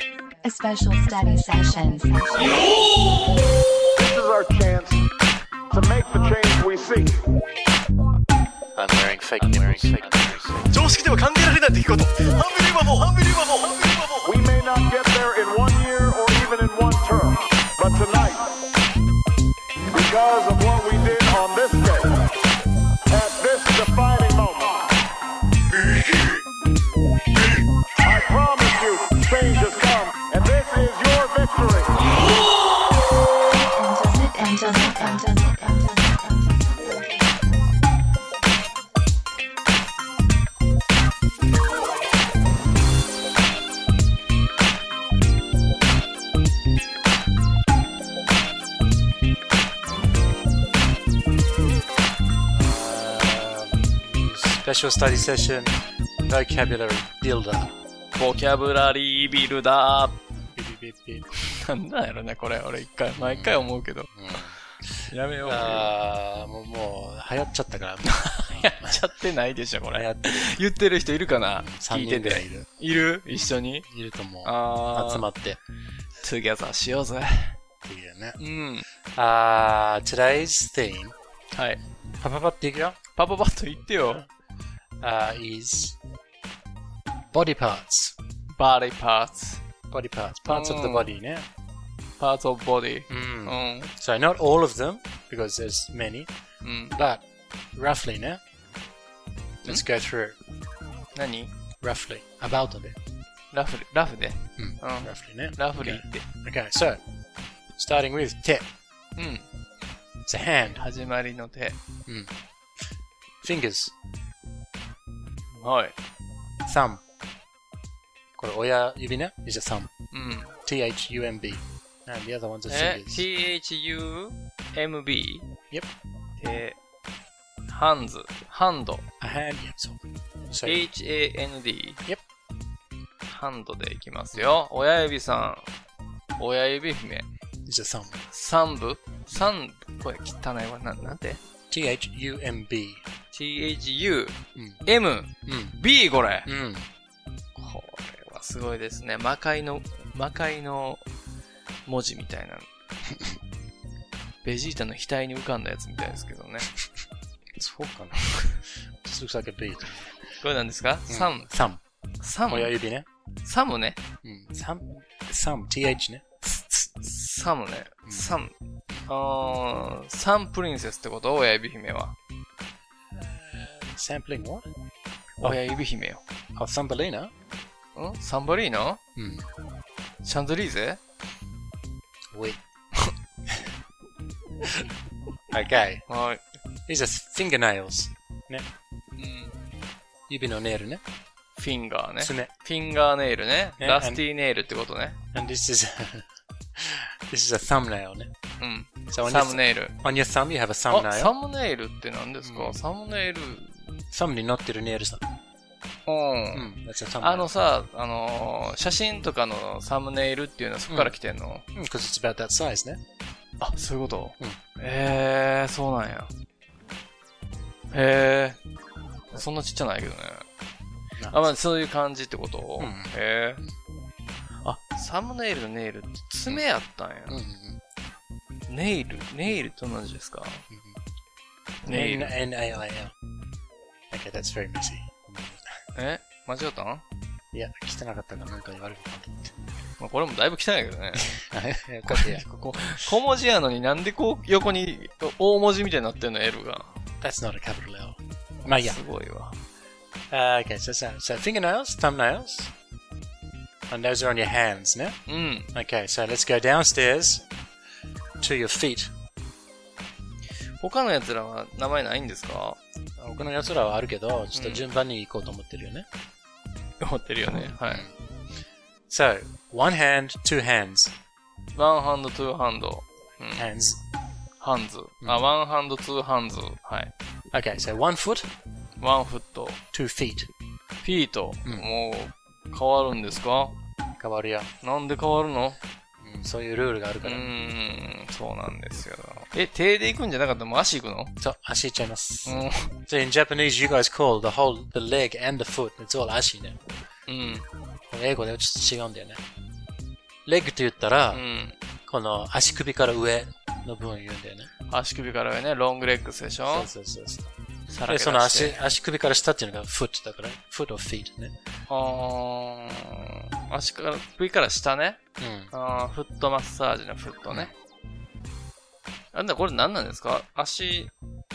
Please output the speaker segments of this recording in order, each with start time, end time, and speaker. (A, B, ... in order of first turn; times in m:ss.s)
0:00.4-0:02.6 A
0:04.0-0:05.1 B
0:05.7-0:07.2 B
0:08.8-0:10.6 C
0:10.7-0:14.3 D
0:14.2-0:18.6 B
0:19.9-0:22.3 B
0:23.1-0:24.9 B
0:28.0-0:32.1 B
0:33.5-0:37.8 A
0:52.5-0:57.7 C
0:58.1-1:00.2 E
1:00.6-1:01.3 C
1:01.4-1:04.1 E
1:03.2-1:09.0 C
1:05.1-1:05.9 E
1:08.1-1:13.9 E
1:09.9-1:10.6 C
1:11.6-1:12.7 C
1:13.3-1:15.6 C
1:14.4-1:15.3 E
1:16.2-1:17.6 E
1:17.8-1:18.4 C
1:18.4-1:18.9 E
1:19.2-1:21.2 C
1:21.5-1:21.8 E
1:22.2-1:23.0 C
1:23.2-1:24.2 E
1:24.0-1:24.3 C
1:25.0-1:26.0 C
1:27.3-1:28.2 C
1:28.5-1:29.6 E
1:29.9-1:31.5 C
1:30.5-1:31.1 E
1:32.2-1:33.9 E
1:33.1-1:36.3 C
1:36.6-1:37.0 E
1:36.9-1:38.4 C
1:39.6-1:40.4 C
1:41.1-1:41.5 E
1:41.8-1:43.0 C
1:43.5-1:46.2 E
1:44.6-1:47.0 C
1:47.8-1:48.6 C
1:49.2-1:49.5 E
1:50.3-1:50.8 C
1:50.8-1:51.8 E
1:53.4-1:54.0 C
1:55.5-1:56.0 E
1:56.7-1:57.0 C
1:58.4-1:59.9 C
2:00.1-2:00.6 E
2:00.6-2:03.3 C
2:02.7-2:05.5 E
2:06.4-2:06.8 E
2:07.7-2:09.1 E
2:09.2-2:10.9 C
2:10.6-2:12.0 E
2:13.2-2:15.7 E
2:16.4-2:17.3 E
2:17.7-2:18.2 C
2:18.3-2:21.4 E
2:21.7-2:23.0 C
2:23.3-2:26.5 E
2:24.6-2:24.8 C
2:25.5-2:25.8 C
2:26.5-2:26.9 C
2:27.6-2:31.0 E
2:31.9-2:32.7 E
2:34.4-2:36.7 E
2:37.6-2:40.1 C
2:40.4-2:41.5 E
2:41.1-2:41.8 C
2:42.2-2:42.7 E
2:42.5-2:43.1 C
2:43.4-2:44.0 E
2:44.2-2:46.2 C
2:46.4-2:48.5 E
2:48.1-2:48.4 C
2:49.1-2:52.2 E
2:53.1-2:54.7 C
2:55.4-2:56.2 E
2:56.6-2:57.3 C
2:58.0-2:59.0 E
2:59.2-2:59.5 C
3:00.2-3:01.0 E
3:02.3-3:02.6 C
3:05.5-3:06.1 C
3:06.1-3:06.4 E
3:06.9-3:08.7 C
3:09.2-3:09.5 E
3:10.3-3:11.0 C
3:11.6-3:15.2 E
3:12.2-3:12.5 C
3:13.8-3:14.2 C
3:15.3-3:18.3 C
3:18.6-3:20.0 E
3:19.1-3:21.3 C
3:20.9-3:23.9 E
3:22.4-3:22.8 C
3:24.1-3:25.2 C
3:26.1-3:31.7 E
3:26.5-3:27.5 C
3:30.9-3:31.2 C
3:31.7-3:33.0 C
3:33.6-3:36.3 E
3:37.9-3:38.6 E
3:39.3-3:40.5 E
3:41.2-3:41.5 C
3:41.3-3:43.6 E
3:42.8-3:43.7 C
3:44.6-3:47.4 E
3:47.3-3:47.8 C
3:48.7-3:50.6 E
3:50.7-3:51.0 C
3:51.8-3:52.4 E
3:51.9-3:53.1 C
3:54.1-3:55.7 C
3:56.0-3:57.0 E
3:57.5-3:59.5 C
4:00.0-4:01.4 E
4:01.3-4:03.0 C
4:02.0-4:06.9 E
4:07.2-4:09.0 C
4:08.6-4:09.6 E
4:10.3-4:12.7 C
4:13.9-4:15.2 C
4:15.3-4:15.7 E
4:15.7-4:17.5 C
4:18.4-4:19.1 C
4:20.8-4:22.8 E
4:23.2-4:26.1 C
4:24.6-4:24.9 E
4:27.0-4:28.1 E
4:27.8-4:28.1 C
4:29.1-4:31.1 C
4:31.7-4:33.7 E
4:33.6-4:34.0 C
4:34.6-4:37.1 E
4:37.5-4:38.5 C
4:39.0-4:39.8 E
4:39.9-4:40.5 C
4:41.0-4:43.8 E
4:44.2-4:44.7 C
4:44.8-4:45.8 E
4:46.2-4:47.4 C
4:47.2-4:51.3 E
4:51.4-4:56.8 C
4:52.5-4:52.9 E
4:57.3-4:57.7 E
4:58.1-4:59.4 C
5:00.5-5:01.4 C
5:01.3-5:01.7 E
5:02.1-5:04.7 C
5:04.9-5:06.9 E
5:06.7-5:07.5 C
5:07.9-5:08.9 E
5:08.1-5:11.5 C
5:11.9-5:15.2 E
5:15.4-5:15.7 C
5:15.7-5:17.7 E
5:17.5-5:17.7 C
5:19.3-5:21.1 E